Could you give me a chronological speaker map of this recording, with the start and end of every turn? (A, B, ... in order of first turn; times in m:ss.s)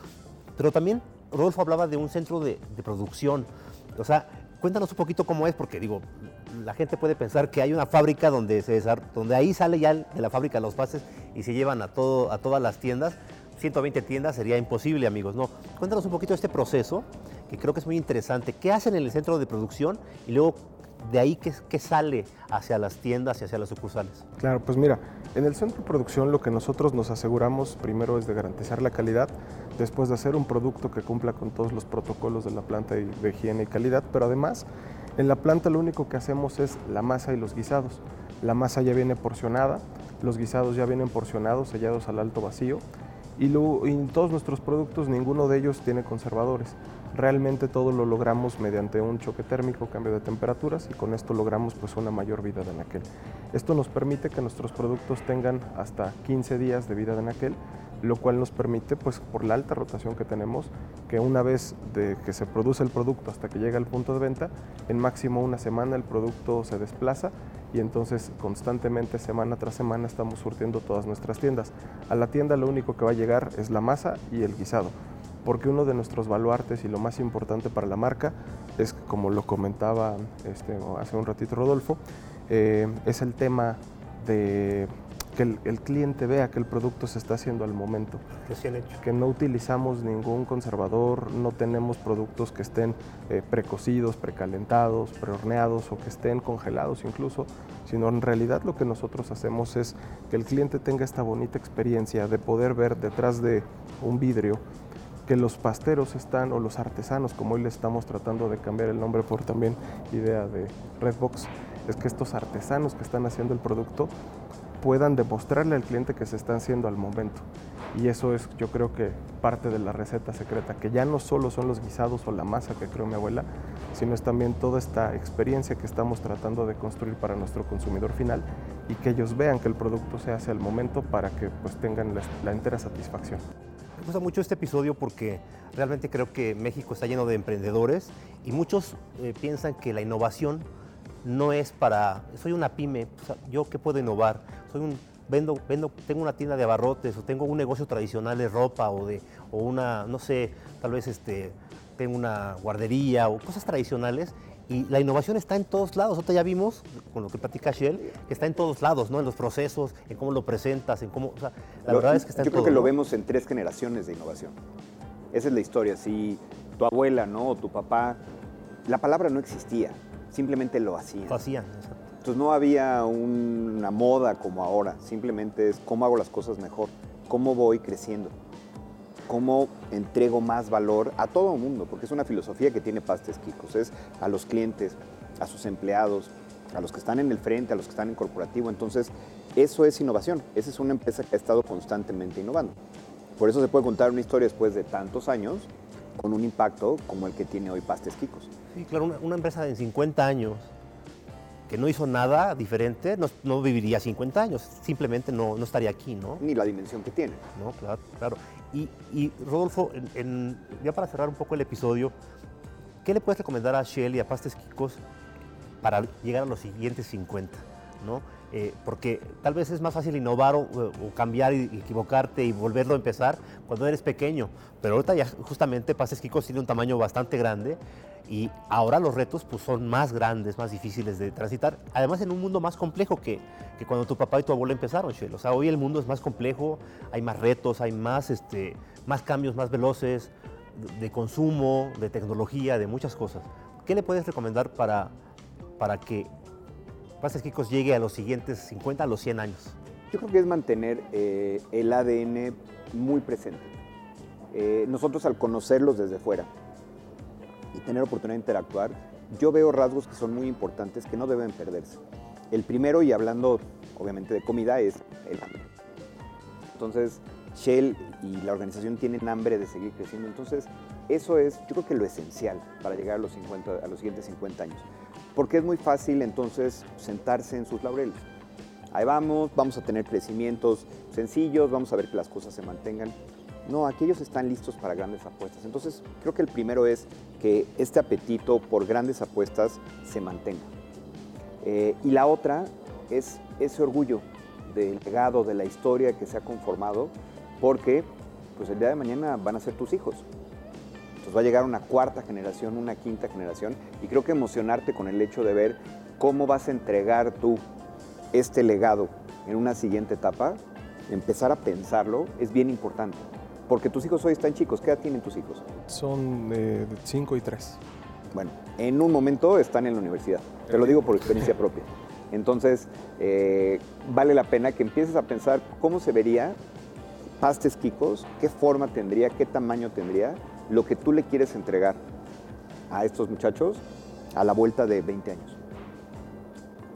0:00.6-0:24.2 A
0:24.4-0:34.6 B
0:35.2-0:42.8 B
0:43.4-1:14.9 B
1:15.4-1:28.2 B
1:28.4-1:29.0 A
1:29.0-1:44.6 B
1:45.3-1:54.1 B
1:54.8-2:13.4 B
2:14.0-2:20.6 A
2:21.2-2:42.9 A
2:41.9-2:44.6 C
2:45.3-2:48.2 C
2:48.9-2:51.4 C
2:51.3-2:52.0 A
2:52.2-2:58.3 C
2:59.3-3:12.8 C
3:13.4-3:18.5 C
3:18.7-3:20.7 A
3:21.7-3:26.4 A
3:26.4-3:27.4 C
3:27.6-3:32.1 A
3:33.0-3:35.0 A
3:35.8-4:05.1 A
4:05.8-4:06.3 A
4:07.2-4:09.8 A
4:10.1-4:13.7 C
4:14.5-4:16.5 C
4:17.7-4:22.0 C
4:22.5-4:25.6 C
4:26.8-4:38.2 C
4:38.9-4:50.7 C
4:51.6-5:00.3 C
5:01.2-5:07.6 C
5:08.3-5:15.6 C
5:15.9-5:17.8 B
5:18.3-5:26.6 C
5:27.4-5:32.0 C
5:32.9-5:33.8 C
5:34.3-5:35.6 C